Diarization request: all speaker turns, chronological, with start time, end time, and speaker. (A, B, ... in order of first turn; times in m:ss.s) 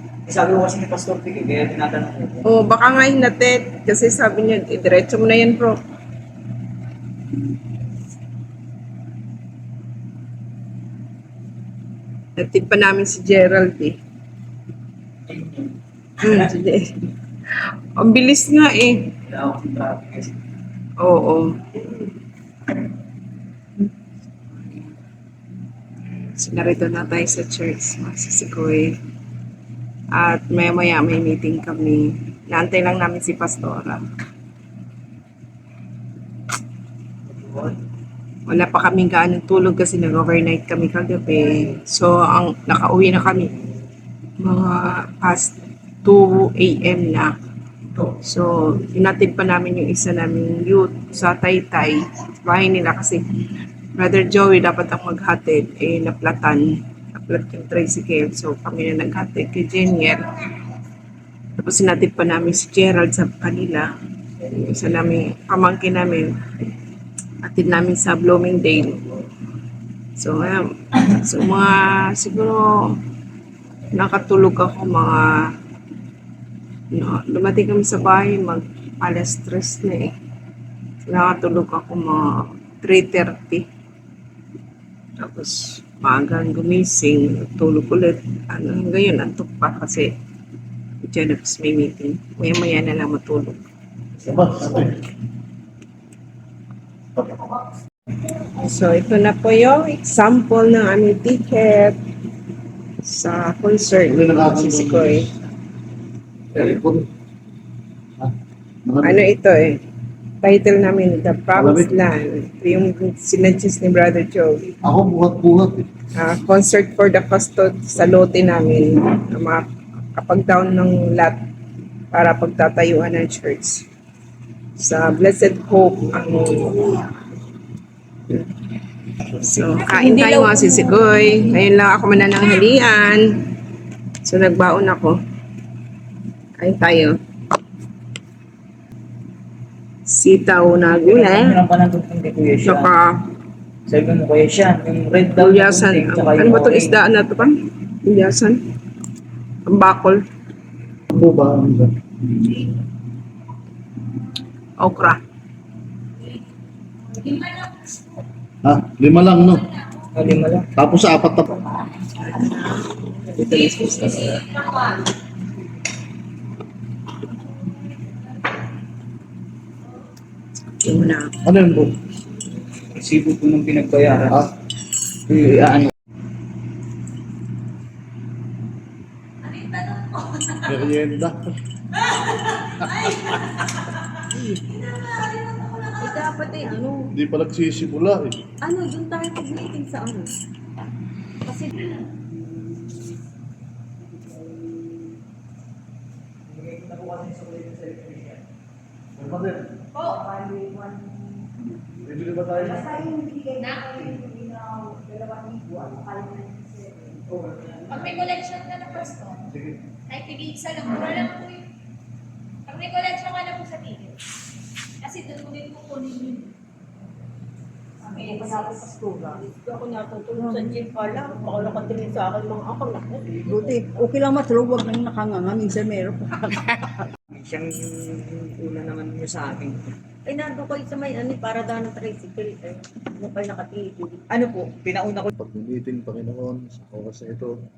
0:00.2-0:02.4 A
0:02.4-0:05.8 B
0:12.4-0:14.0 B
0:15.3-0:16.5 A
0:16.2-0:17.1 B
0:17.9-0:19.1 B
0:19.2-0:20.3 A
0:21.0-0:21.6 B
0:26.2-0:29.0 B
0:30.1-0:34.0 B
0:37.4-0:37.7 A
0:38.5-0:43.6 B
0:44.4-0:47.4 B
0:48.2-0:53.2 B
0:53.9-1:00.3 B
1:01.6-1:03.9 B
1:04.4-1:06.3 B
1:07.4-1:09.1 B
1:10.2-1:13.0 B
1:13.9-1:15.5 B
1:16.9-1:20.1 B
1:21.1-1:23.6 B
1:25.2-1:30.1 B
1:31.0-1:33.6 B
1:34.2-1:35.1 C
1:37.2-1:37.6 C
1:38.4-1:42.0 B
1:43.0-1:45.3 B
1:44.0-1:45.3 C
1:46.5-1:47.1 C
1:48.8-1:49.3 C
1:49.0-1:49.8 B
1:50.4-1:54.7 B
1:51.5-1:52.0 C
1:54.8-1:55.9 C
1:56.1-2:01.4 B
2:02.1-2:03.8 B
2:04.8-2:07.1 B
2:08.3-2:08.6 B
2:09.3-2:13.5 B
2:14.2-2:15.2 B
2:16.6-2:17.2 B
2:20.0-2:21.6 B
2:20.8-2:22.9 A
2:22.6-2:23.2 B
2:23.9-2:27.0 A
2:25.4-2:28.6 B
2:29.6-2:30.2 B
2:31.1-2:32.7 C
2:34.8-2:35.2 B
2:38.6-2:39.8 C
2:40.1-2:40.7 A
2:40.8-2:41.7 C
2:42.1-2:45.0 B
2:50.8-2:51.4 B
2:51.4-2:52.0 C
2:52.9-2:54.5 A
2:55.2-2:55.9 A
2:59.5-3:00.5 D
3:00.6-3:01.5 C
3:02.8-3:03.3 C
3:04.8-3:05.9 D
3:06.0-3:07.0 E
3:07.1-3:08.5 C
3:08.6-3:10.3 E
3:16.4-3:18.4 A
3:19.2-3:19.8 C
3:20.2-3:21.1 E
3:22.0-3:23.1 C
3:22.7-3:27.2 E
3:23.6-3:23.9 D
3:27.9-3:29.4 D
3:29.5-3:29.8 C
3:30.1-3:31.6 D
3:32.7-3:34.2 D
3:35.0-3:36.5 D
3:38.0-3:46.9 E
3:38.4-3:38.7 D
3:47.3-3:49.9 A
3:50.2-3:54.2 E
3:54.3-3:55.3 A
3:55.3-3:57.6 C